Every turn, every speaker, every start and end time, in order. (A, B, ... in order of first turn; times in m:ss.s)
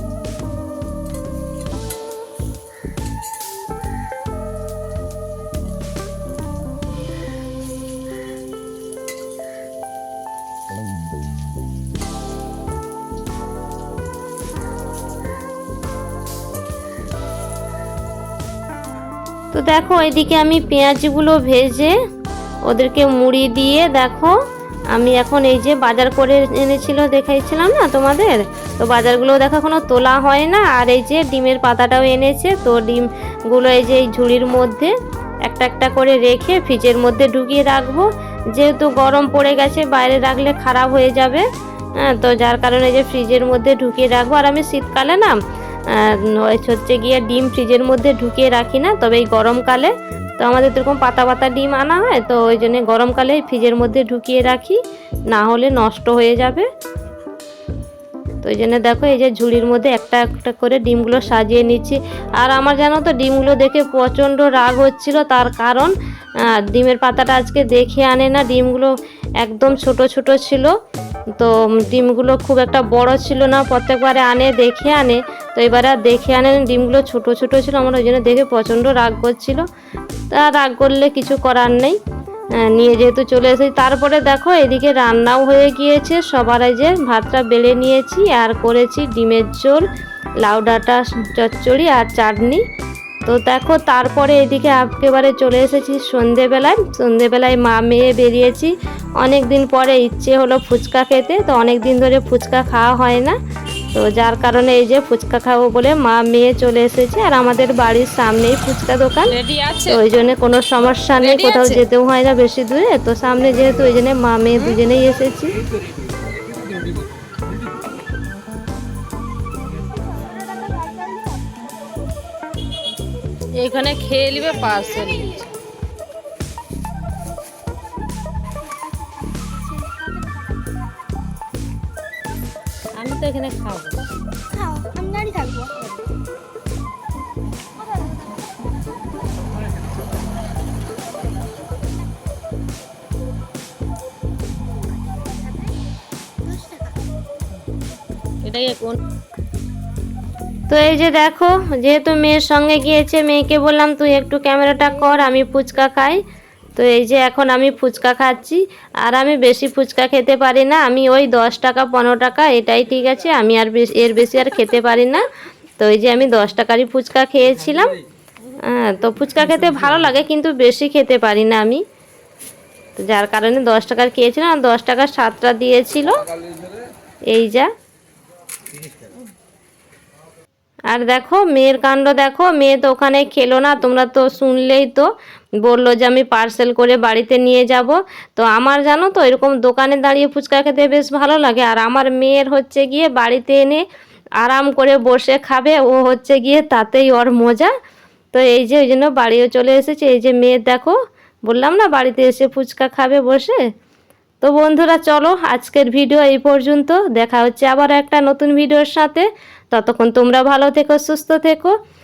0:19.5-0:22.0 A
0:22.7-0:24.3 A
0:24.9-0:34.9 A
0:35.4-0:41.5 A
0:42.0-0:45.4 A
0:45.9-0:54.8 A
0:55.3-0:56.7 A
0:58.4-1:10.7 A
1:11.4-1:19.6 A
1:20.3-1:22.0 A
1:22.6-1:29.9 A
1:30.4-1:32.6 A
1:33.3-1:43.4 A
1:43.9-1:55.6 A
1:49.3-1:50.0 B
1:51.2-1:51.8 B
2:00.1-2:01.4 C
2:03.6-2:05.5 B
2:09.6-2:10.4 C
2:13.0-2:13.9 B
2:14.5-2:16.1 C
2:25.3-2:25.7 C
2:26.5-2:26.9 C
2:28.4-2:29.0 B
2:30.7-2:36.2 A
2:36.8-2:45.3 A
2:45.8-2:48.0 A
2:48.6-2:51.8 A
2:53.0-2:56.2 A
2:57.3-2:57.7 A
3:00.9-3:05.1 A
3:05.6-3:13.8 A
3:14.4-3:17.7 A
3:18.3-3:23.6 A
3:24.4-3:31.8 A